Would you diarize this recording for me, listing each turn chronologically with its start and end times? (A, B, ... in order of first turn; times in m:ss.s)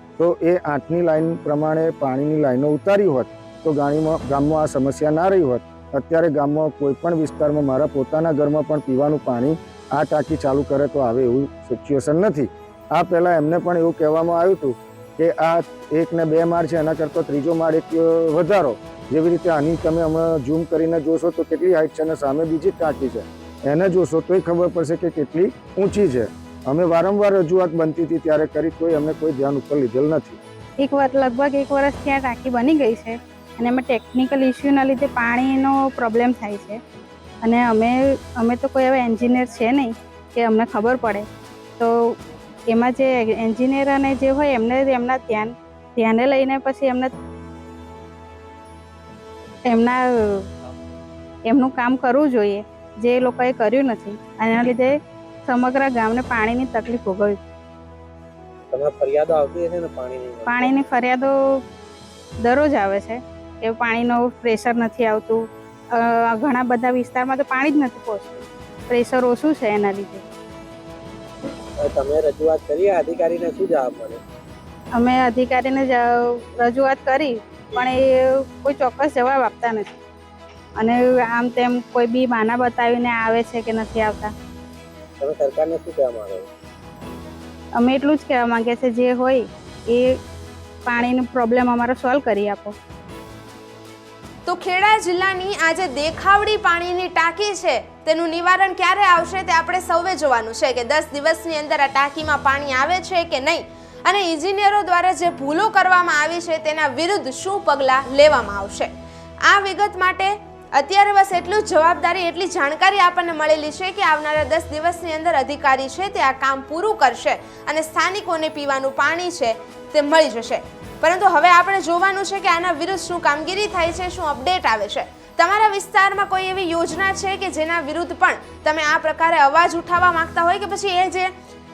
0:00.2-0:30.4 A
0:30.8-0:36.8 B
0:37.4-0:41.3 B
0:41.8-0:42.2 B
0:42.7-0:47.1 B
0:49.7-0:50.5 B
0:51.5-0:54.9 B
0:55.5-0:57.4 B
0:58.7-1:00.8 C
1:00.5-1:01.6 B
1:02.4-1:10.2 B
1:11.8-1:14.2 C
1:15.0-1:19.9 B
1:20.8-1:24.3 B
1:25.2-1:26.5 C
1:27.8-1:30.2 B
1:30.9-1:32.8 B
1:34.5-1:48.9 D
1:49.5-2:11.3 D